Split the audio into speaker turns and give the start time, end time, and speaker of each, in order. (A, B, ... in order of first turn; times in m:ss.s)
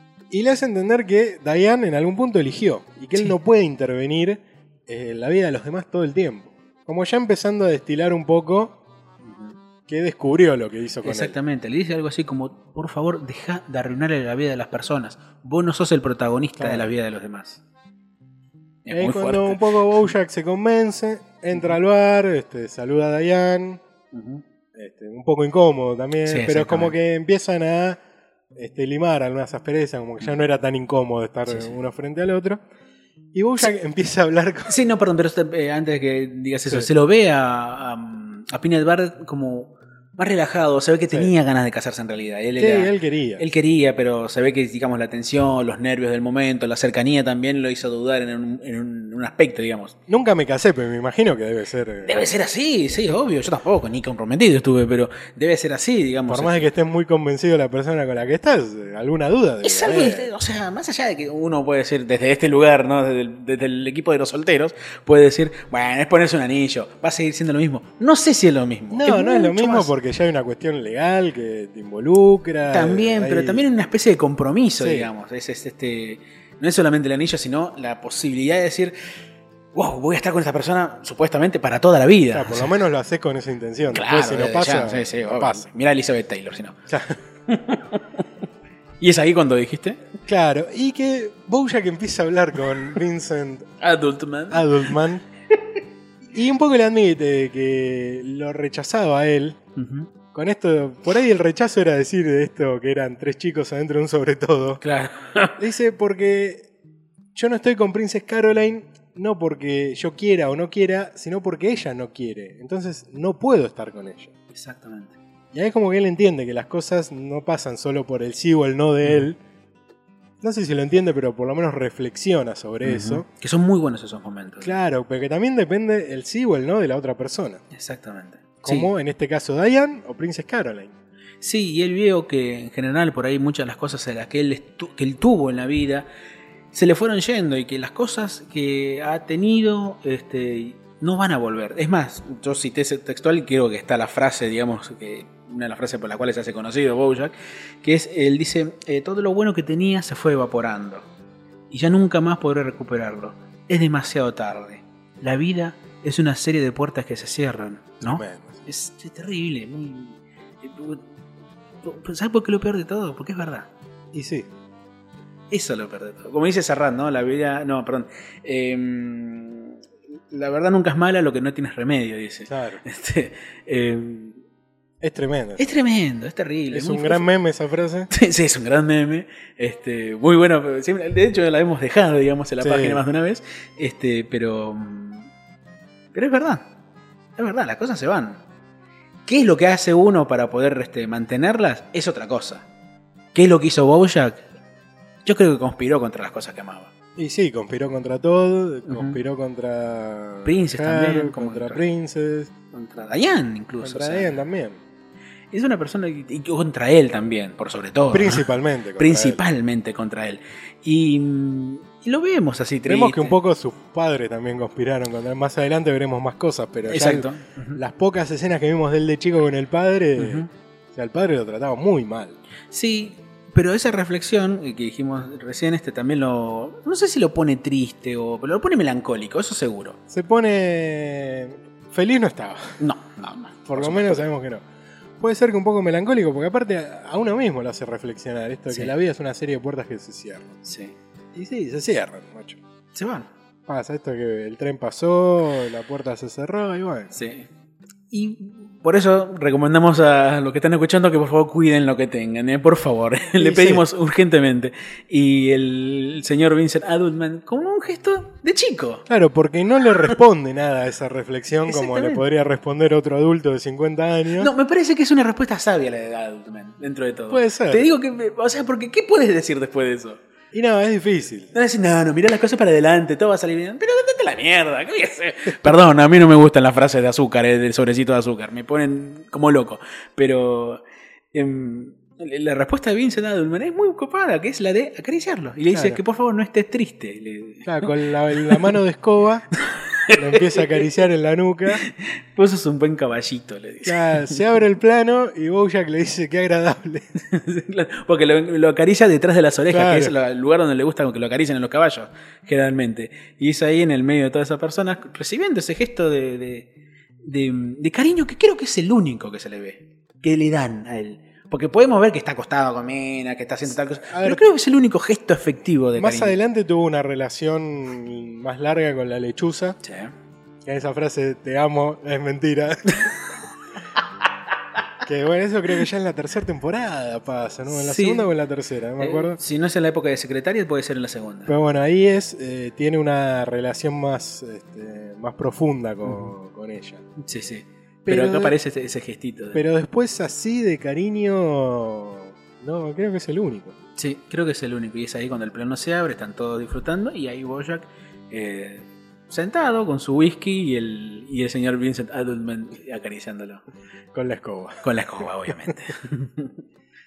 0:00.3-0:08.7 A
0:09.2-0:09.5 B
0:09.9-0:11.3 A
0:11.0-0:17.6 B
0:16.6-0:16.9 A
0:18.8-0:20.1 B
0:18.9-0:23.8 A
0:24.1-0:24.4 B
0:24.7-0:28.0 A
0:26.2-0:26.9 B
0:28.6-0:32.6 A
0:31.5-0:31.8 B
0:33.3-0:34.7 A
0:34.7-0:49.9 B
0:42.6-0:43.4 A
0:50.1-0:52.2 A
0:52.0-0:56.7 B
0:56.3-1:00.3 A
0:59.6-1:09.9 B
1:08.9-1:13.6 A
1:12.7-1:18.9 B
1:14.8-1:15.1 A
1:19.7-1:22.7 B
1:22.3-1:25.6 A
1:23.9-1:26.8 B
1:26.9-1:27.2 A
1:27.5-1:28.2 B
1:29.0-1:30.0 B
1:30.3-1:33.7 A
1:33.8-1:34.7 B
1:34.5-1:35.2 A
1:36.3-1:39.6 A
1:39.8-1:40.1 B
1:40.3-1:44.8 A
1:44.8-1:45.6 B
1:45.6-1:46.6 A
1:47.3-1:54.3 A
1:54.5-1:55.2 B
1:55.5-1:59.4 A
2:00.4-2:03.2 A
2:02.8-2:04.7 B
2:04.6-2:07.6 A
2:07.7-2:08.9 B
2:08.6-2:10.9 A
2:11.4-2:16.0 B
2:16.7-2:31.1 B
2:31.7-2:41.0 B
2:38.1-2:38.6 A
2:41.8-2:43.7 B
2:44.1-2:44.5 A
2:45.5-2:49.8 B
2:50.3-2:54.4 B
2:52.5-2:52.8 A
2:55.0-2:55.7 A
2:55.6-2:57.3 B
2:56.7-2:58.1 A
2:58.1-3:05.3 B
3:02.6-3:03.0 A
3:06.1-3:06.6 B
3:07.4-3:08.4 B
3:09.3-3:12.6 B
3:13.3-3:14.4 B
3:15.2-3:16.9 B
3:17.2-3:22.5 A
3:18.9-3:19.2 B
3:20.4-3:21.8 B
3:22.7-3:24.3 B
3:23.8-3:24.8 A
3:25.5-3:28.4 B
3:28.1-3:29.4 A
3:29.0-3:33.4 B
3:32.8-3:42.4 A
3:36.9-3:37.8 B
3:40.2-3:40.5 B
3:42.7-3:50.0 B
3:50.1-3:52.8 A
3:52.8-3:54.2 B
3:53.7-3:54.6 A
3:55.2-4:00.6 A
4:00.6-4:00.9 B
4:01.3-4:02.6 A
4:02.9-4:03.3 B
4:03.7-4:07.1 A
4:07.1-4:07.5 B
4:08.1-4:19.0 B
4:13.4-4:13.8 A
4:19.1-4:24.5 A
4:21.6-4:22.2 B
4:24.4-4:30.2 B
4:27.3-4:27.9 A
4:30.5-4:31.5 A
4:31.5-4:40.8 B
4:41.3-4:48.6 B
4:45.7-4:46.0 A
4:47.6-4:49.4 A
4:49.7-4:50.8 B
4:50.1-4:51.8 A
4:51.7-4:54.4 B
4:53.8-4:57.0 A
4:57.2-5:06.7 B
4:59.7-5:00.1 A
5:07.2-5:16.4 B
5:13.7-5:14.4 A
5:16.0-5:19.8 A
5:19.8-5:20.1 B
5:20.6-5:23.1 A
5:25.0-5:29.4 A
5:27.7-5:28.3 B
5:29.0-5:31.5 B
5:31.5-5:37.0 A
5:36.0-5:36.3 B
5:37.2-5:39.6 B
5:38.1-5:38.5 A
5:39.5-5:43.8 A
5:44.0-5:53.6 B
5:54.1-5:54.8 A
5:54.8-5:56.5 B